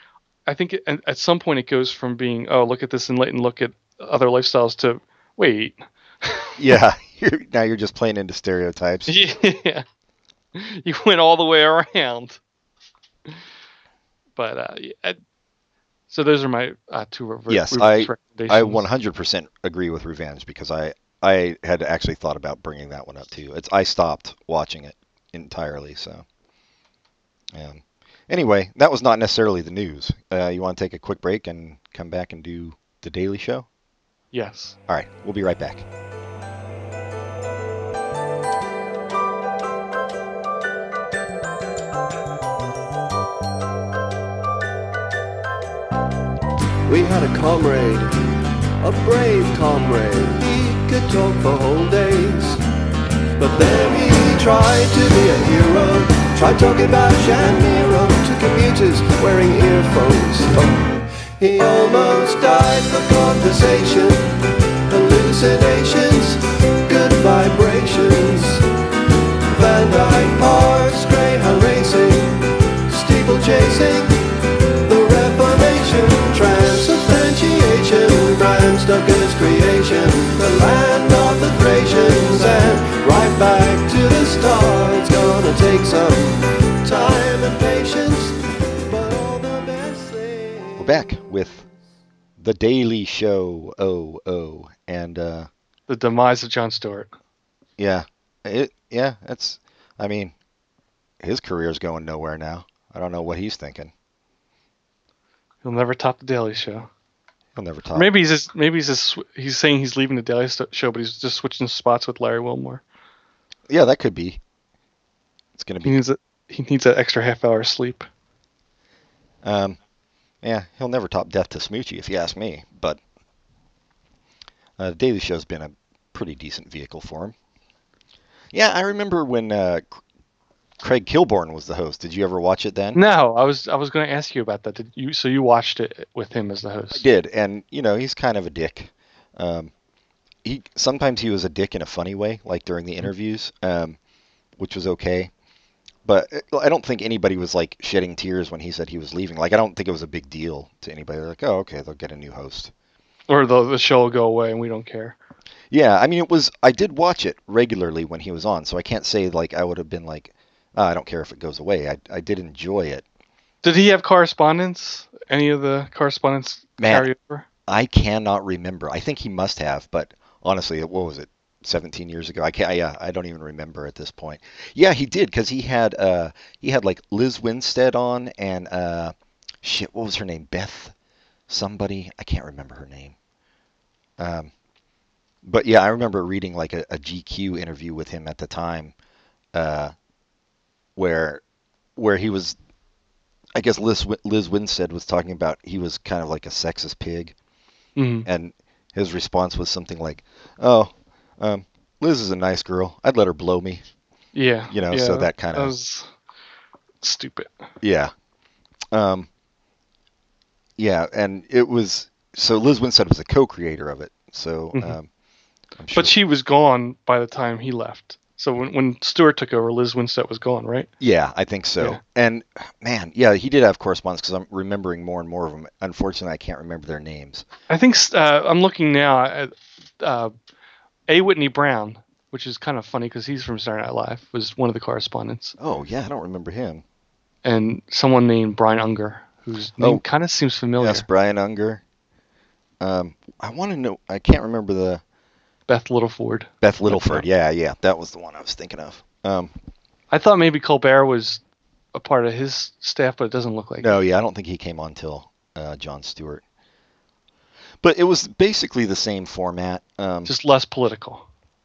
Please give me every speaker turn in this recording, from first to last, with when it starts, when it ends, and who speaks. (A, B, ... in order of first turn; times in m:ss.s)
0:00.5-0:06.5 A
0:06.6-0:09.2 B
0:09.1-0:09.8 A
0:10.6-0:12.4 A
0:14.4-0:15.2 A
0:16.1-0:18.9 A
0:17.5-0:26.2 B
0:27.5-0:33.7 B
0:34.3-0:34.8 A
0:34.9-0:35.9 B
0:46.9-0:48.2 C
0:48.8-0:52.6 C
0:53.4-1:08.6 C
1:09.5-1:14.2 C
1:14.8-1:31.1 C
1:30.8-1:31.6 B
1:32.4-1:35.5 B
1:35.9-1:37.1 A
1:37.8-1:40.3 B
1:41.2-1:43.9 B
1:45.6-1:46.9 A
1:47.6-1:48.1 B
1:48.0-1:52.8 A
1:53.7-1:54.4 B
1:55.6-1:56.0 B
1:55.8-1:58.1 A
1:59.4-1:59.8 B
2:00.4-2:03.0 B
2:04.8-2:07.4 B
2:08.5-2:10.0 B
2:10.8-2:13.0 B
2:13.0-2:17.0 A
2:16.9-2:19.7 B
2:20.4-2:24.0 B
2:24.6-2:25.3 B
2:26.0-2:32.7 B
2:33.3-2:35.2 A
2:35.7-2:43.0 B
2:43.6-2:47.4 A
2:46.8-2:47.1 B
2:47.7-3:00.9 B
3:01.5-3:03.2 B
3:04.2-3:04.5 B
3:05.4-3:08.9 B
3:09.5-3:09.9 B
3:11.0-3:11.4 B
3:12.0-3:12.6 B
3:13.6-3:17.3 B
3:18.0-3:18.3 A
3:18.3-3:23.8 B
3:24.3-3:26.1 A
3:24.7-3:25.7 B
3:27.0-3:27.5 A
3:27.8-3:28.1 B
3:28.9-3:29.3 B
3:30.8-3:35.1 B
3:35.8-3:36.1 B
3:35.9-3:40.9 A
3:41.0-3:47.5 B
3:47.7-3:50.3 A
3:51.1-3:55.6 A
3:55.6-3:56.8 B
3:57.4-4:01.1 A
4:00.8-4:01.8 B
4:02.8-4:05.0 B
4:05.7-4:07.2 A
4:06.6-4:09.5 B
4:10.1-4:11.4 A
4:11.9-4:14.0 A
4:13.8-4:16.4 B
4:17.8-4:20.3 B
4:20.2-4:21.2 A